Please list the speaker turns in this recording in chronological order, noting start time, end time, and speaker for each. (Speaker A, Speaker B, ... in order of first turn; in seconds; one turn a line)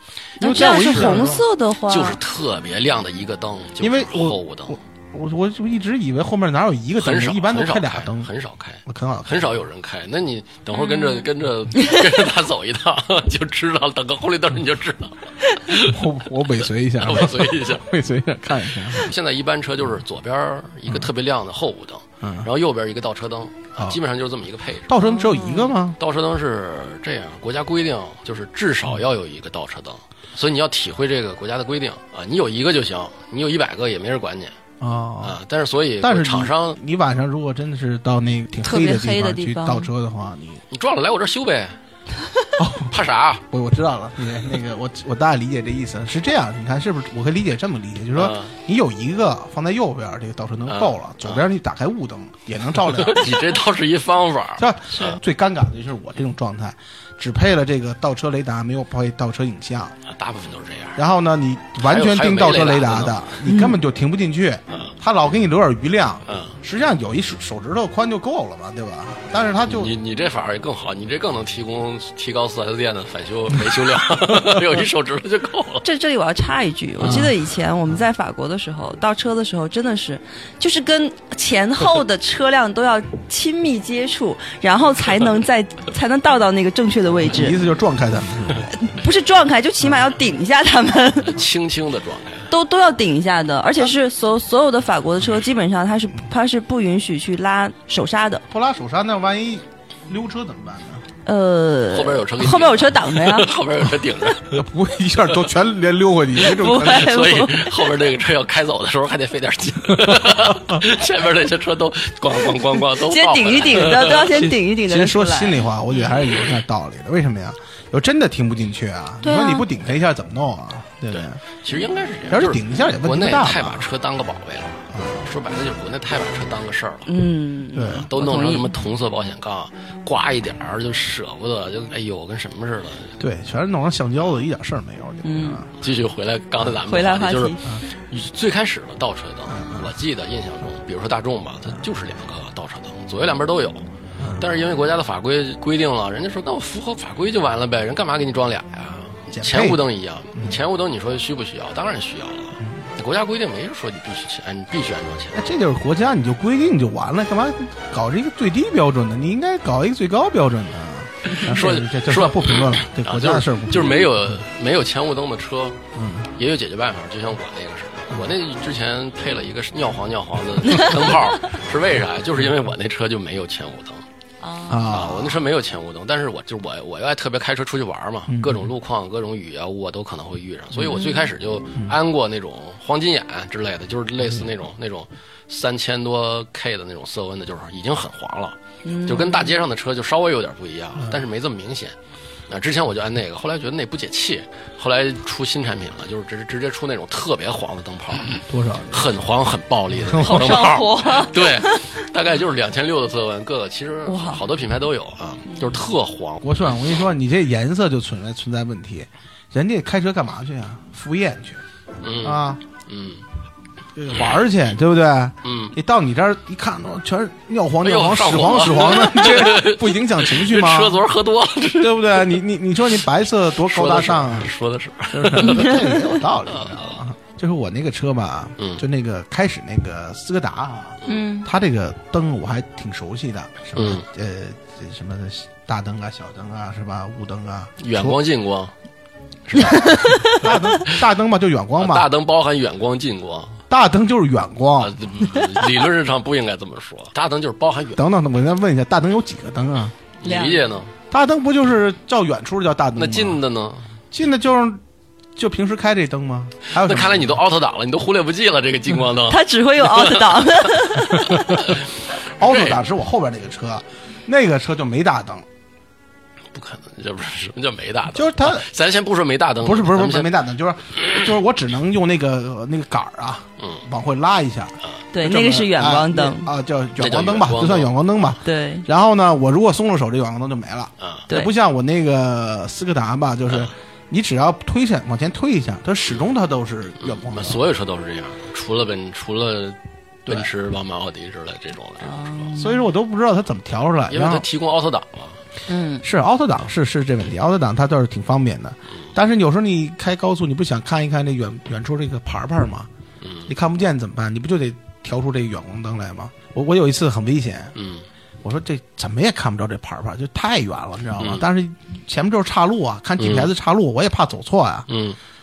Speaker A: 0.4-1.4
Speaker B: 0.4-2.2
Speaker C: 0.4-4.8
Speaker A: 3.8-8.3
Speaker C: 7.0-16.0
Speaker A: 8.8-9.6
Speaker B: 10.8-11.3
Speaker A: 15.8-19.1
Speaker C: 17.0-17.9
Speaker C: 18.8-24.9
Speaker A: 22.2-22.5
Speaker A: 24.9-26.0
Speaker B: 25.0-25.8
Speaker C: 26.0-34.5
Speaker A: 34.8-35.4
Speaker C: 35.2-36.8
Speaker A: 36.0-40.6
Speaker B: 38.6-39.9
Speaker C: 40.7-41.8
Speaker A: 42.6-42.9
Speaker C: 42.8-43.4
Speaker A: 43.5-53.5
Speaker C: 48.1-48.5
Speaker C: 50.7-51.5
Speaker C: 52.8-55.2
Speaker A: 54.6-60.0
Speaker C: 60.0-61.0
Speaker A: 61.0-69.9
Speaker C: 61.8-63.3
Speaker B: 63.4-63.8
Speaker C: 66.2-66.5
Speaker C: 69.7-75.8
Speaker B: 75.8-87.6
Speaker A: 77.0-77.4
Speaker A: 87.2-88.7
Speaker B: 88.7-91.4
Speaker C: 91.2-92.5
Speaker B: 92.5-98.4
Speaker A: 98.5-101.0
Speaker B: 101.2-103.5
Speaker C: 101.9-104.6
Speaker A: 104.5-107.2
Speaker B: 106.4-107.9
Speaker C: 106.9-114.4
Speaker A: 110.0-110.8
Speaker B: 112.9-115.7
Speaker A: 114.3-121.4
Speaker B: 119.2-119.7
Speaker C: 121.1-127.1
Speaker A: 122.3-123.9
Speaker A: 124.9-125.2
Speaker B: 127.1-128.7
Speaker A: 127.7-128.1
Speaker C: 127.9-133.2
Speaker A: 133.2-135.7
Speaker B: 135.2-135.6
Speaker C: 135.8-155.4
Speaker B: 136.9-137.7
Speaker A: 139.5-139.8
Speaker A: 144.2-144.5
Speaker A: 149.3-149.8
Speaker A: 155.3-164.4
Speaker C: 161.3-165.8
Speaker A: 165.9-166.3
Speaker C: 166.3-174.0
Speaker B: 174.4-174.9
Speaker A: 174.7-175.4
Speaker C: 174.9-191.9
Speaker A: 178.3-178.7
Speaker B: 180.9-181.3
Speaker B: 188.8-189.5
Speaker C: 192.5-206.7
Speaker A: 198.5-199.1
Speaker A: 199.9-200.8
Speaker B: 200.2-202.0
Speaker B: 204.1-204.4
Speaker A: 206.4-211.6
Speaker C: 212.0-213.2
Speaker A: 212.2-212.6
Speaker A: 213.9-221.0
Speaker C: 215.4-215.8
Speaker C: 217.8-222.3
Speaker A: 221.8-224.5
Speaker C: 223.6-225.8
Speaker A: 225.1-238.2
Speaker B: 225.5-225.9
Speaker C: 226.5-226.9
Speaker C: 228.6-228.8
Speaker B: 231.1-231.5
Speaker C: 233.8-234.0
Speaker C: 237.8-238.7
Speaker C: 239.5-240.4
Speaker A: 239.6-242.1
Speaker B: 239.7-240.3
Speaker C: 241.8-243.6
Speaker A: 243.7-245.2
Speaker C: 244.8-248.0
Speaker A: 247.9-249.9
Speaker C: 250.2-250.9
Speaker B: 250.2-250.7
Speaker A: 251.1-253.4
Speaker C: 252.9-253.9
Speaker A: 254.1-254.8
Speaker A: 255.3-257.4
Speaker C: 256.7-261.8
Speaker B: 259.3-261.7
Speaker A: 262.4-265.4
Speaker C: 262.4-262.8
Speaker C: 266.5-270.3
Speaker A: 268.1-268.7
Speaker A: 269.6-287.6
Speaker C: 273.6-273.8
Speaker B: 275.1-276.5
Speaker C: 277.0-277.9
Speaker B: 278.4-278.9
Speaker C: 281.0-281.3
Speaker C: 287.0-292.5
Speaker B: 292.0-292.9
Speaker A: 292.6-294.4
Speaker C: 294.1-295.4
Speaker B: 295.7-296.0
Speaker A: 296.0-302.9
Speaker C: 303.2-303.5
Speaker A: 303.5-307.7
Speaker C: 307.7-308.1
Speaker A: 308.4-314.9
Speaker C: 311.2-311.4
Speaker C: 313.2-313.5
Speaker C: 314.9-315.2